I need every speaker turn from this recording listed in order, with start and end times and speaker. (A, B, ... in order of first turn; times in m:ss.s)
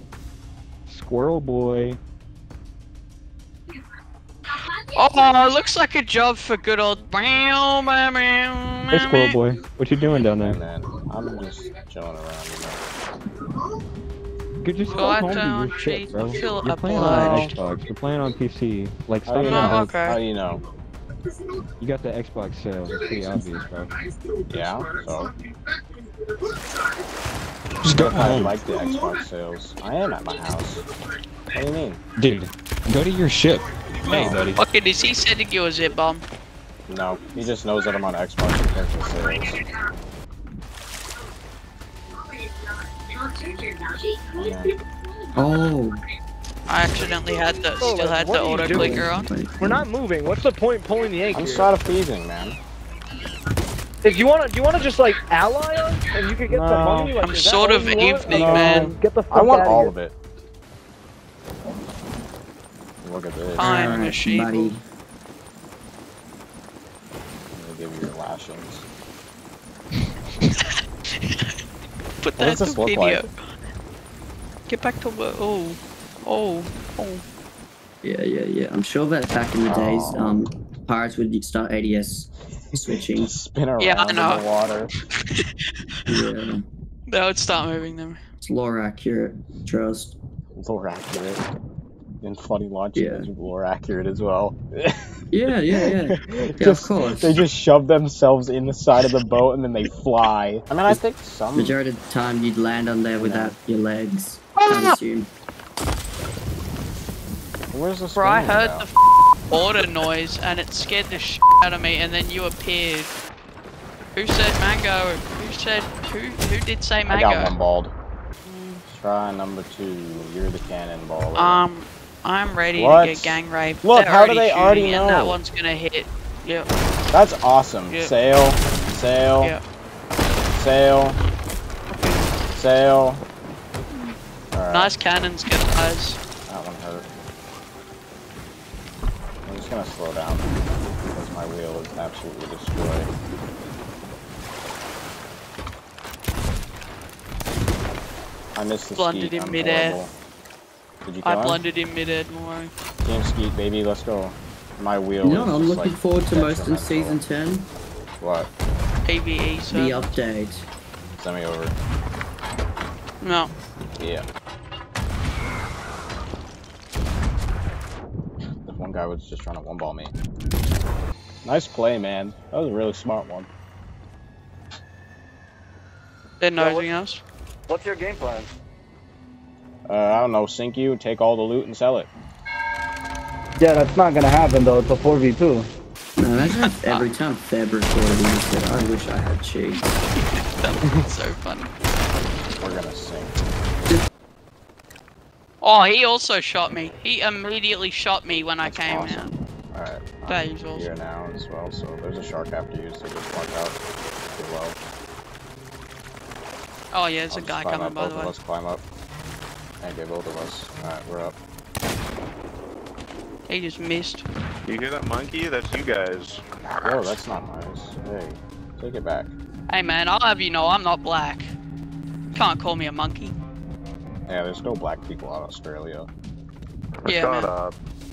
0:00.9-0:02.0 A
0:04.9-0:09.4 B
0:08.9-0:10.6 A
0:10.4-0:12.8 C
0:14.6-0:20.0 A
0:14.9-0:17.6 B
0:16.9-0:17.5 C
0:19.2-0:20.6 C
0:19.4-0:20.2 B
0:21.8-0:23.9 A
0:24.5-0:25.3 C
0:27.8-0:28.5 A
0:27.9-0:30.8 C
0:31.5-0:32.0 C
0:32.2-0:34.6 A
0:34.1-0:34.4 C
0:34.6-0:36.2 B
0:36.9-0:39.6 C
0:44.4-0:44.7 C
0:45.3-0:46.0 D
0:46.7-0:49.3 B
0:47.8-0:49.1 E
0:48.7-0:49.8 D
0:49.6-0:51.7 E
0:51.3-0:52.6 C
0:54.0-0:59.9 E
0:56.5-0:57.2 C
0:57.2-0:59.0 B
0:58.2-1:00.1 C
1:03.0-1:04.0 C
1:03.6-1:04.7 B
1:03.6-1:04.8 D
1:07.5-1:08.8 C
1:10.4-1:11.5 B
1:12.2-1:13.3 B
1:12.4-1:13.3 C
1:14.7-1:17.2 B
1:18.0-1:23.3 D
1:19.6-1:20.4 C
1:22.7-1:24.9 C
1:23.8-1:24.4 B
1:26.1-1:26.6 D
1:27.1-1:28.2 B
1:28.4-1:30.2 D
1:30.5-1:31.4 C
1:32.2-1:34.9 C
1:32.9-1:33.3 D
1:35.3-1:37.4 D
1:35.8-1:41.8 C
1:41.5-1:45.3 D
1:43.2-1:43.6 C
1:44.6-1:45.0 C
1:47.7-1:48.9 C
1:48.1-1:48.9 B
1:49.5-1:53.1 B
1:54.1-1:57.6 B
1:57.1-1:57.9 C
1:58.4-1:58.8 B
1:58.9-2:01.6 C
2:01.3-2:06.7 B
2:02.7-2:05.4 C
2:07.1-2:09.6 C
2:07.9-2:08.2 B
2:10.6-2:11.2 C
2:11.9-2:12.3 B
2:12.5-2:13.2 C
2:14.5-2:14.9 C
2:14.7-2:16.2 B
2:16.5-2:17.1 C
2:19.4-2:20.5 C
2:21.1-2:23.1 C
2:28.5-2:30.1 C
2:29.0-2:30.0 B
2:31.0-2:31.6 C
2:31.2-2:32.7 B
2:33.0-2:37.2 C
2:35.2-2:37.7 D
2:38.2-2:38.5 C
2:39.0-2:40.1 B
2:39.7-2:40.6 D
2:41.1-2:41.8 C
2:43.2-2:43.5 B
2:44.0-2:44.2 C
2:48.6-2:50.1 C
2:51.4-2:53.5 C
2:56.4-2:57.2 B
2:56.6-2:56.9 E
2:57.7-2:58.5 E
2:59.9-3:02.1 C
3:03.6-3:05.7 E
3:06.2-3:09.8 D
3:06.4-3:07.1 B
3:09.8-3:11.7 B
3:12.6-3:13.4 C
3:15.6-3:19.4 B
3:18.6-3:24.8 C
3:20.2-3:20.9 B
3:26.9-3:28.3 B
3:27.3-3:28.8 C
3:29.8-3:31.4 C
3:33.5-3:34.2 B
3:34.6-3:37.2 F
3:36.8-3:39.3 C
3:39.7-3:41.5 B
3:42.3-3:43.3 B
3:44.3-3:46.1 C
3:47.0-3:47.8 F
3:47.0-3:47.5 B